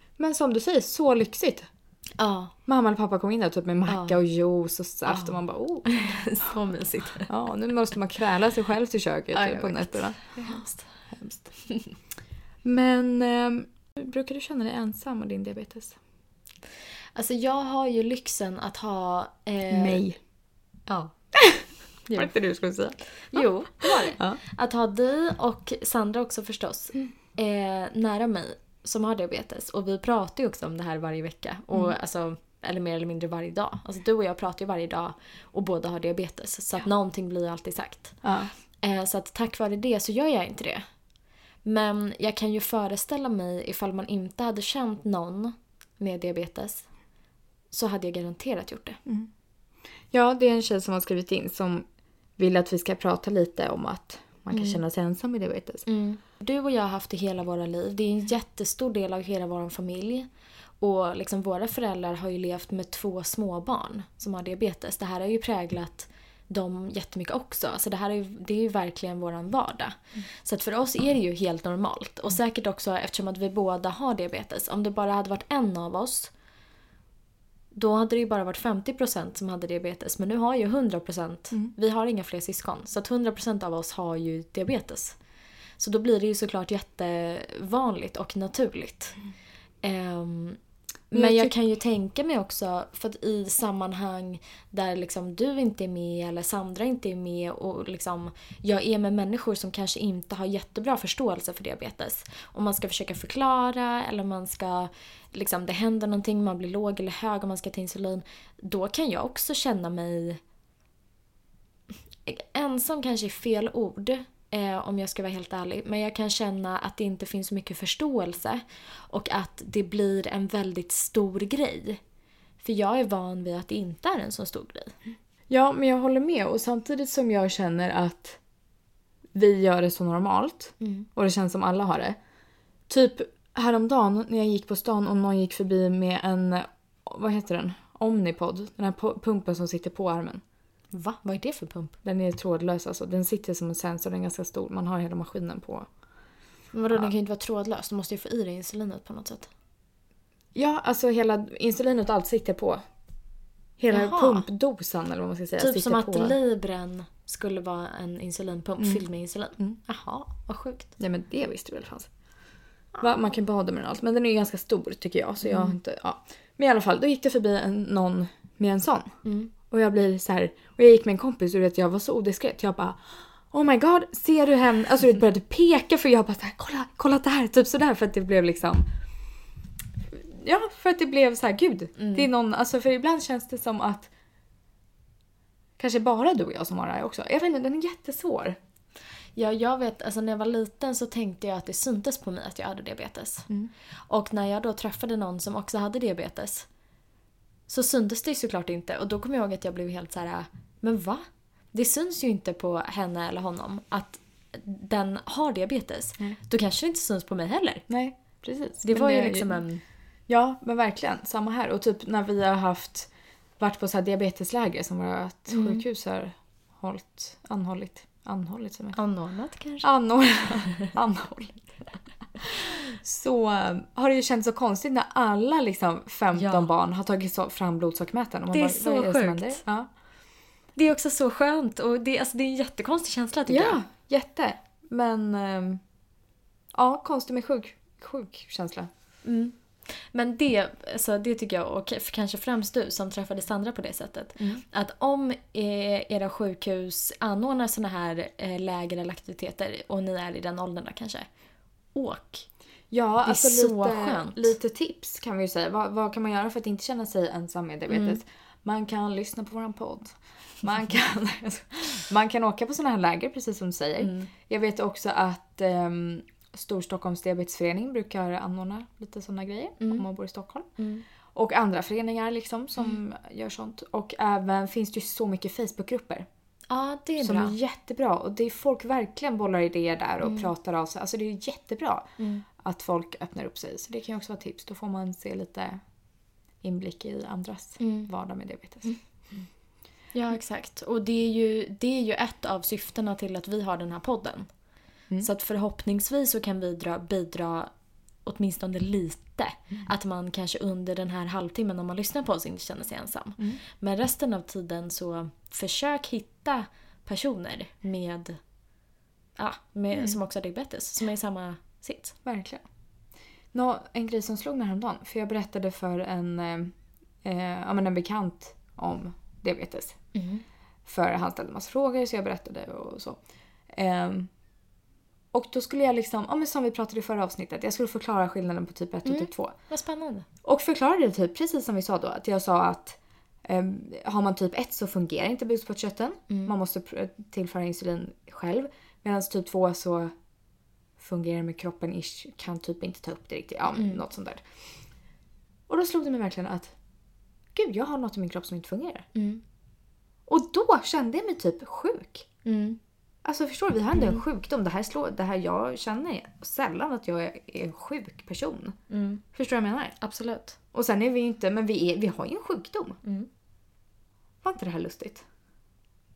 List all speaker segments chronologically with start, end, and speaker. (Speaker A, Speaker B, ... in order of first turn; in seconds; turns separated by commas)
Speaker A: 0.2-1.7, Speaker B: 2.2-2.5, Speaker A: 2.7-6.2, Speaker B: 3.9-4.2, Speaker B: 5.1-7.3, Speaker A: 7.3-10.6, Speaker B: 9.3-10.9, Speaker A: 11.1-11.5, Speaker A: 12.6-16.0, Speaker B: 17.1-20.0, Speaker A: 19.7-20.2, Speaker B: 20.9-21.1, Speaker A: 21.4-24.4, Speaker B: 22.1-22.3, Speaker B: 23.3-38.2, Speaker A: 38.2-38.5, Speaker B: 38.8-40.8, Speaker B: 41.6-46.9, Speaker B: 47.7-49.0, Speaker A: 50.1-51.9, Speaker A: 52.4-55.9, Speaker B: 54.5-54.8, Speaker B: 55.9-60.3, Speaker B: 60.8-76.3, Speaker B: 77.7-85.2, Speaker B: 85.8-89.2, Speaker B: 89.8-90.6, Speaker B: 91.1-110.4, Speaker A: 91.1-91.5, Speaker B: 112.3-122.0, Speaker B: 122.6-125.0, Speaker A: 125.5-128.4, Speaker A: 129.3-132.2, Speaker B: 130.8-131.1, Speaker A: 132.9-140.4, Speaker B: 140.9-142.0, Speaker A: 142.0-145.9, Speaker B: 146.7-149.5, Speaker A: 150.6-152.8, Speaker A: 153.8-156.4, Speaker B: 153.9-154.5, Speaker B: 155.6-160.9, Speaker A: 161.0-162.1, Speaker B: 162.9-163.2, Speaker A: 163.0-169.2, Speaker B: 165.4-165.8, Speaker B: 169.2-169.5, Speaker A: 169.7-178.9, Speaker A: 180.1-184.1, Speaker B: 182.0-182.3, Speaker A: 185.8-188.6, Speaker B: 189.4-193.5, Speaker B: 194.1-196.7, Speaker B: 197.7-207.8, Speaker A: 207.9-209.6, Speaker B: 208.8-209.8, Speaker A: 210.3-219.0, Speaker B: 215.5-215.8, Speaker B: 218.9-219.9, Speaker A: 219.8-221.7, Speaker A: 222.4-229.9, Speaker B: 226.3-226.7, Speaker B: 228.5-229.6, Speaker B: 230.8-233.8, Speaker A: 233.5-235.8, Speaker A: 236.7-238.9, Speaker B: 239.2-251.3, Speaker B: 251.9-252.5, Speaker A: 252.9-270.7, Speaker B: 253.3-254.6, Speaker B: 257.9-258.2, Speaker B: 264.0-264.3, Speaker B: 270.8-271.1, Speaker A: 271.3-276.3, Speaker B: 276.7-277.6, Speaker A: 277.2-285.8, Speaker B: 280.2-280.5, Speaker B: 282.2-282.4, Speaker A: 286.6-289.0, Speaker B: 287.8-288.1, Speaker B: 290.1-294.5, Speaker B: 295.2-297.7, Speaker B: 298.2-308.4, Speaker B: 309.4-312.2, Speaker A: 312.2-312.6, Speaker A: 313.5-320.0, Speaker B: 320.1-320.4, Speaker A: 320.9-323.2, Speaker A: 323.7-324.3, Speaker A: 325.3-329.6, Speaker B: 329.1-330.3, Speaker A: 330.4-340.1, Speaker A: 341.0-344.4, Speaker B: 343.7-344.0, Speaker A: 345.7-346.7, Speaker A: 347.6-349.1, Speaker B: 349.1-349.4, Speaker A: 350.3-352.3, Speaker B: 352.4-352.8, Speaker A: 353.2-358.8, Speaker B: 353.9-354.2, Speaker B: 358.9-359.2, Speaker A: 359.3-360.0, Speaker B: 360.0-360.6, Speaker A: 360.7-363.0, Speaker B: 363.0-363.3, Speaker A: 364.4-365.2